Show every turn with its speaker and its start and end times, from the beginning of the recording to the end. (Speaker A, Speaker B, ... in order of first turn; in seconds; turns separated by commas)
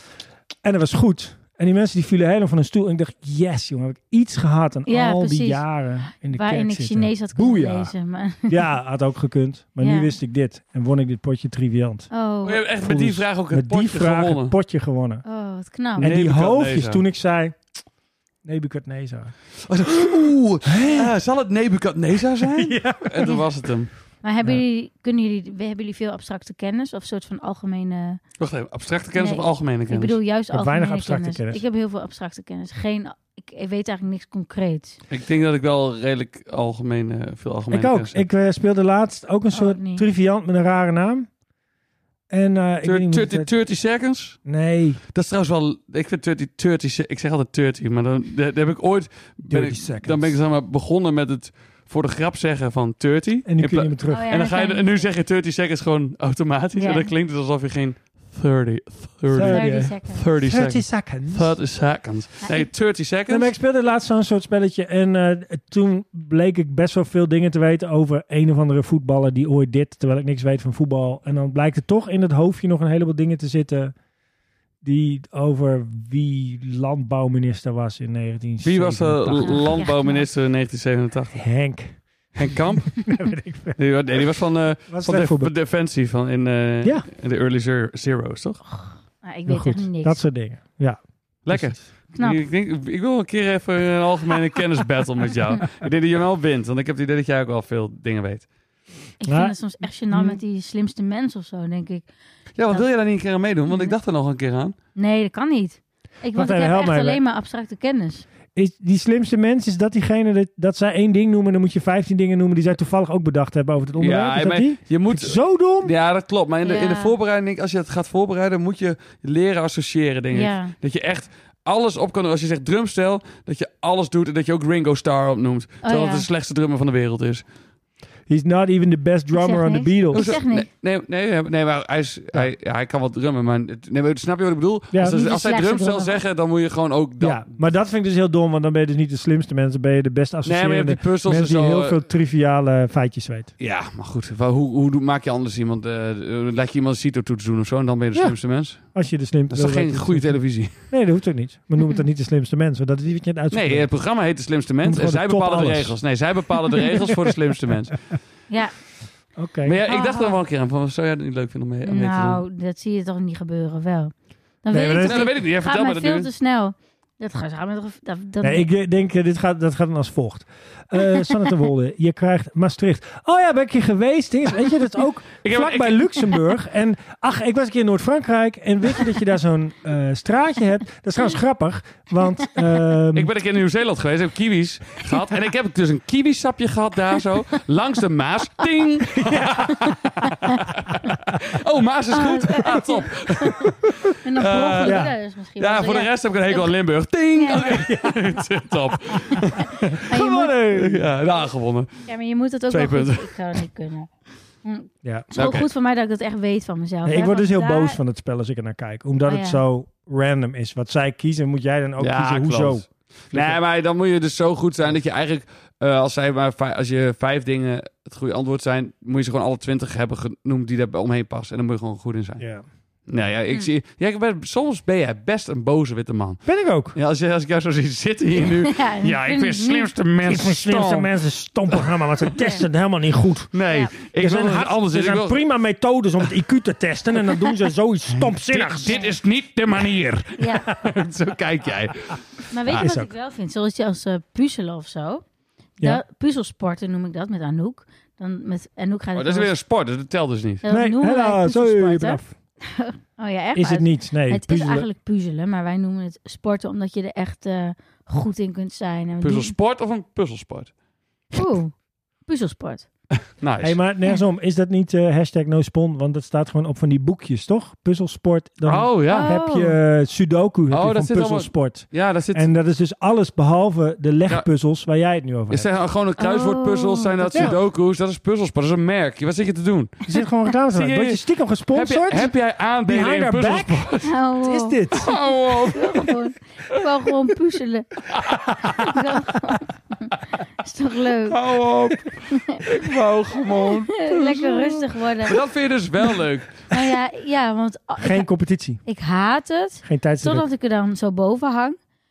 Speaker A: 0.6-7.9, Speaker B: 4.9-5.6, Speaker B: 6.3-8.6, Speaker A: 8.5-12.1, Speaker B: 9.8-10.1, Speaker B: 12.1-12.6, Speaker C: 12.4-14.5, Speaker A: 12.8-15.2, Speaker B: 15.2-16.1, Speaker A: 16.0-17.6, Speaker C: 16.0-17.0, Speaker A: 18.4-19.3, Speaker C: 19.7-23.9, Speaker A: 20.6-21.1, Speaker A: 22.4-23.4, Speaker B: 24.2-28.2, Speaker C: 28.4-30.2, Speaker B: 29.2-35.0, Speaker A: 30.5-31.6, Speaker C: 35.1-38.2, Speaker A: 37.7-41.3, Speaker B: 39.5-40.0, Speaker A: 42.3-43.5, Speaker C: 42.8-44.4, Speaker A: 44.5-45.0, Speaker C: 45.1-63.5, Speaker A: 49.5-50.4, Speaker A: 53.5-54.3, Speaker B: 54.1-55.0, Speaker B: 56.8-57.1, Speaker A: 59.3-61.5, Speaker B: 59.5-60.2, Speaker A: 63.3-73.9, Speaker A: 74.8-79.7, Speaker C: 78.6-81.4, Speaker B: 79.4-80.3, Speaker A: 81.3-83.8, Speaker C: 82.3-83.0, Speaker C: 83.8-88.6, Speaker A: 84.9-85.5, Speaker B: 88.8-90.2, Speaker A: 89.5-91.8, Speaker C: 91.5-98.5, Speaker B: 99.2-102.1, Speaker A: 99.2-99.6, Speaker A: 100.1-100.4, Speaker C: 102.6-104.8, Speaker B: 103.7-103.9, Speaker B: 105.0-108.3, Speaker A: 106.3-107.2, Speaker A: 108.5-115.9, Speaker C: 114.0-127.4, Speaker B: 116.6-117.1, Speaker B: 120.3-120.7, Speaker B: 125.8-126.3, Speaker A: 128.3-130.4, Speaker B: 129.3-130.7, Speaker C: 130.1-137.5, Speaker A: 134.9-135.2, Speaker B: 135.0-136.2, Speaker A: 137.2-143.5, Speaker C: 140.4-142.0, Speaker C: 143.6-148.9, Speaker A: 148.9-153.9, Speaker C: 149.5-150.8, Speaker C: 153.5-158.0, Speaker A: 154.8-156.0, Speaker A: 156.7-157.3, Speaker A: 159.4-159.8, Speaker C: 159.7-162.4, Speaker B: 159.9-160.4, Speaker B: 161.8-168.7, Speaker A: 164.7-165.3, Speaker C: 165.0-166.3, Speaker A: 168.4-183.3, Speaker C: 175.4-176.2, Speaker C: 183.1-195.1, Speaker A: 189.2-189.9, Speaker B: 190.2-190.6, Speaker B: 192.1-193.7, Speaker B: 194.2-196.7, Speaker A: 194.8-195.1, Speaker C: 195.6-200.0, Speaker B: 197.3-198.0, Speaker A: 197.7-198.2, Speaker A: 199.4-201.1, Speaker B: 200.1-200.5, Speaker C: 200.7-202.0, Speaker B: 202.1-204.1, Speaker C: 202.7-203.3, Speaker B: 204.6-208.0, Speaker A: 205.0-205.3, Speaker C: 205.3-205.7, Speaker A: 207.1-213.6, Speaker B: 209.3-209.6, Speaker C: 212.0-222.4, Speaker A: 222.4-222.6, Speaker C: 223.1-231.1, Speaker A: 226.4-226.9, Speaker B: 228.4-229.9, Speaker A: 230.2-238.9, Speaker C: 233.5-235.4, Speaker C: 238.1-242.9, Speaker B: 238.9-239.1, Speaker B: 240.4-240.7, Speaker B: 242.5-245.2, Speaker A: 242.7-243.1, Speaker B: 245.8-249.5, Speaker C: 249.2-250.6, Speaker B: 250.6-259.5, Speaker A: 250.7-252.3, Speaker A: 253.6-254.9, Speaker C: 259.2-260.7, Speaker B: 261.4-262.9, Speaker C: 263.4-263.8, Speaker A: 263.6-275.7, Speaker C: 268.6-269.3, Speaker B: 269.1-269.8, Speaker C: 270.7-272.5, Speaker C: 275.5-280.1, Speaker B: 276.2-277.6, Speaker A: 280.1-282.3, Speaker C: 280.7-281.2, Speaker C: 281.7-284.1, Speaker A: 282.9-285.2, Speaker B: 284.0-285.1, Speaker C: 284.9-286.1, Speaker B: 285.7-287.9, Speaker C: 288.1-288.5, Speaker B: 288.7-291.4, Speaker C: 291.3-294.5, Speaker B: 292.3-292.6, Speaker B: 293.9-295.4, Speaker C: 295.2-296.7, Speaker B: 296.7-298.2, Speaker A: 298.0-298.8, Speaker B: 298.9-301.8, Speaker A: 299.8-300.4